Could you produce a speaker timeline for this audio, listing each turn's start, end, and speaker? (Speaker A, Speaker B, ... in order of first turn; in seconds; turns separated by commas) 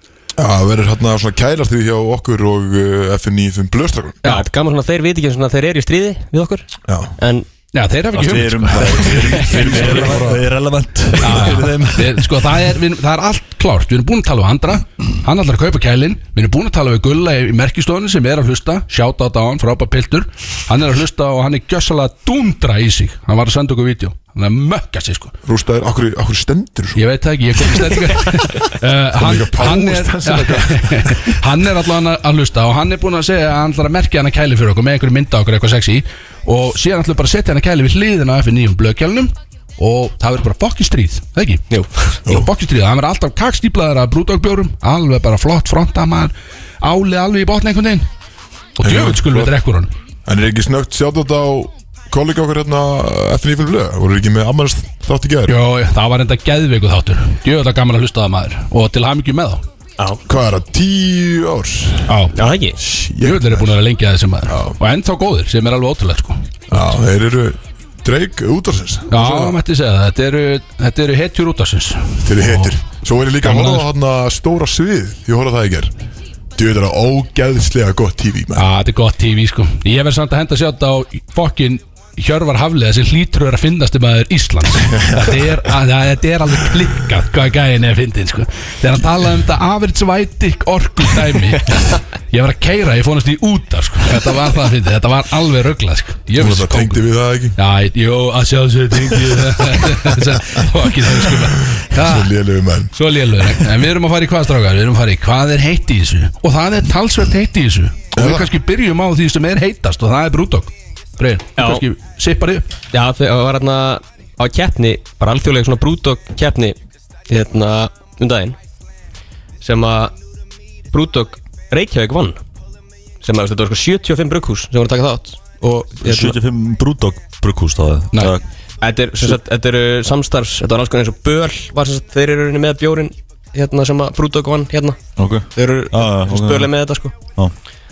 Speaker A: 0.4-4.2, Speaker B: 4.2-7.5, Speaker A: 6.9-7.1, Speaker C: 7.7-10.3, Speaker D: 8.1-12.3, Speaker A: 8.7-10.4, Speaker C: 11.2-25.4, Speaker A: 11.3-11.7, Speaker A: 25.4-27.0, Speaker C: 26.9-41.6, Speaker A: 29.1-31.4, Speaker B: 41.7-42.2, Speaker C: 42.2-48.1, Speaker C: 48.8-49.9, Speaker A: 48.8-49.6, Speaker A: 50.2-55.6, Speaker C: 55.5-59.6, Speaker A: 60.2-62.2, Speaker C: 62.1-62.4, Speaker B: 62.4-62.8, Speaker A: 62.8-63.7, Speaker C: 63.2-66.9, Speaker A: 64.5-64.8, Speaker A: 66.7-69.6, Speaker C: 69.1-72.8, Speaker A: 72.2-75.9, Speaker C: 73.4-73.9, Speaker A: 76.6-78.6, Speaker C: 78.5-97.0, Speaker A: 96.4-97.6, Speaker C: 97.6-102.3, Speaker A: 99.9-100.7, Speaker A: 101.2-103.6, Speaker C: 102.9-112.7, Speaker A: 108.1-108.5, Speaker B: 111.6-111.8, Speaker B: 112.9-116.8, Speaker B: 117.3-118.6, Speaker B: 119.6-120.1, Speaker B: 120.9-122.4, Speaker B: 123.2-126.4, Speaker D: 126.0-128.4, Speaker B: 128.8-135.0, Speaker D: 135.2-136.7, Speaker B: 135.6-137.1